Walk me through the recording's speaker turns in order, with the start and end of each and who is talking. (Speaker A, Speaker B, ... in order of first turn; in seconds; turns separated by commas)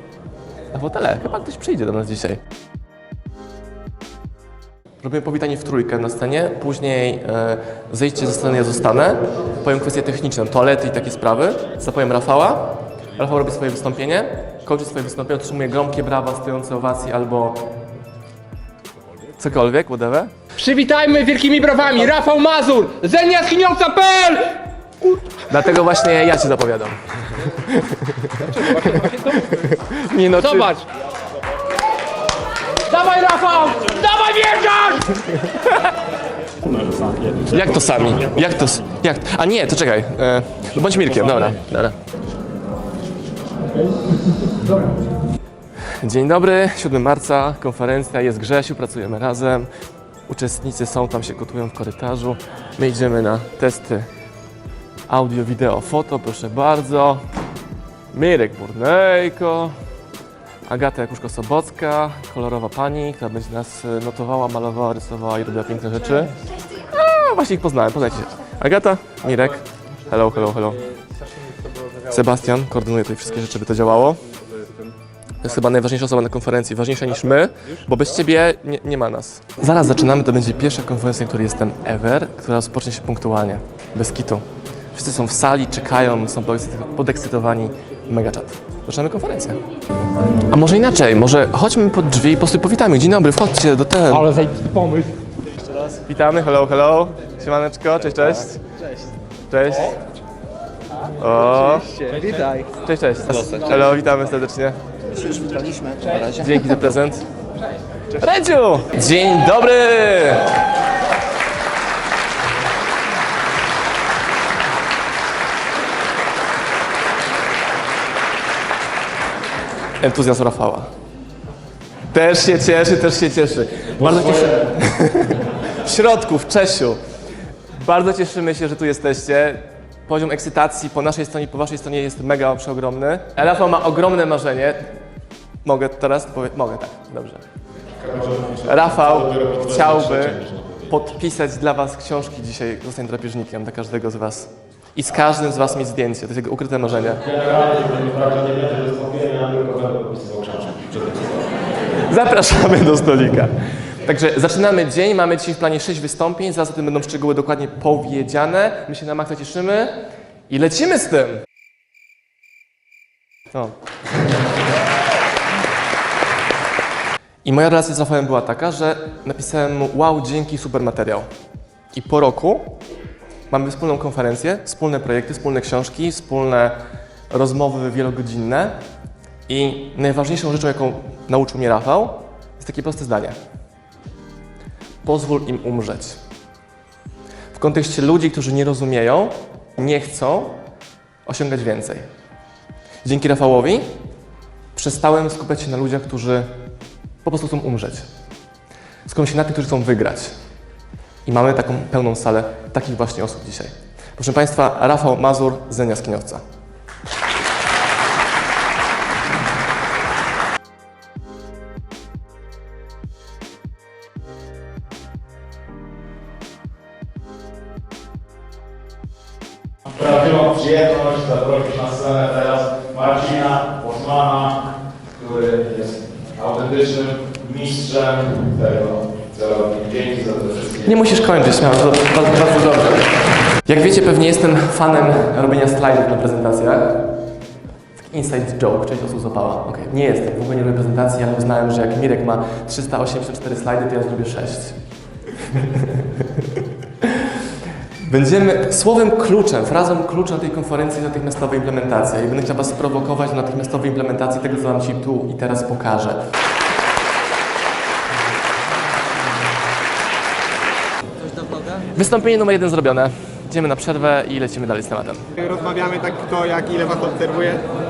Speaker A: 0.7-2.4, Speaker A: 5.0-17.6, Speaker A: 19.4-20.3, Speaker B: 20.6-25.4, Speaker A: 25.5-30.8, Speaker B: 28.4-29.6, Speaker B: 30.4-30.9, Speaker B: 32.8-35.4, Speaker A: 35.5-35.8, Speaker A: 37.4-42.0, Speaker B: 44.5-44.8, Speaker A: 45.9-49.7, Speaker A: 50.3-54.1, Speaker A: 55.1-57.2, Speaker A: 58.1-59.7, Speaker A: 60.7-70.9, Speaker A: 72.0-74.2, Speaker A: 75.4-89.6, Speaker A: 90.5-94.4, Speaker B: 94.2-95.2, Speaker A: 95.8-98.6, Speaker A: 99.5-100.0, Speaker A: 101.2-101.9, Speaker C: 102.0-102.7, Speaker A: 102.7-104.8, Speaker C: 103.3-103.6, Speaker A: 106.1-107.3, Speaker A: 108.2-110.5, Speaker A: 120.0-120.9, Speaker A: 122.1-127.0, Speaker A: 127.7-134.9, Speaker A: 135.6-137.4, Speaker C: 138.0-140.0, Speaker A: 138.6-147.2, Speaker C: 147.2-151.3, Speaker A: 151.9-160.0, Speaker A: 160.5-161.4, Speaker A: 167.4-171.3, Speaker A: 171.9-172.8, Speaker A: 173.5-176.8, Speaker A: 177.3-178.8, Speaker A: 179.5-183.4, Speaker A: 185.0-186.2, Speaker A: 187.5-190.6, Speaker A: 191.3-192.1, Speaker A: 193.1-193.9, Speaker A: 194.7-196.5, Speaker A: 197.2-198.1, Speaker A: 199.1-200.3, Speaker A: 201.3-206.4, Speaker D: 220.0-224.6, Speaker D: 225.2-230.9, Speaker A: 230.8-237.1, Speaker A: 238.0-244.8, Speaker A: 245.4-246.5, Speaker A: 247.0-247.4, Speaker A: 248.0-256.3, Speaker A: 261.6-265.2, Speaker E: 265.4-267.6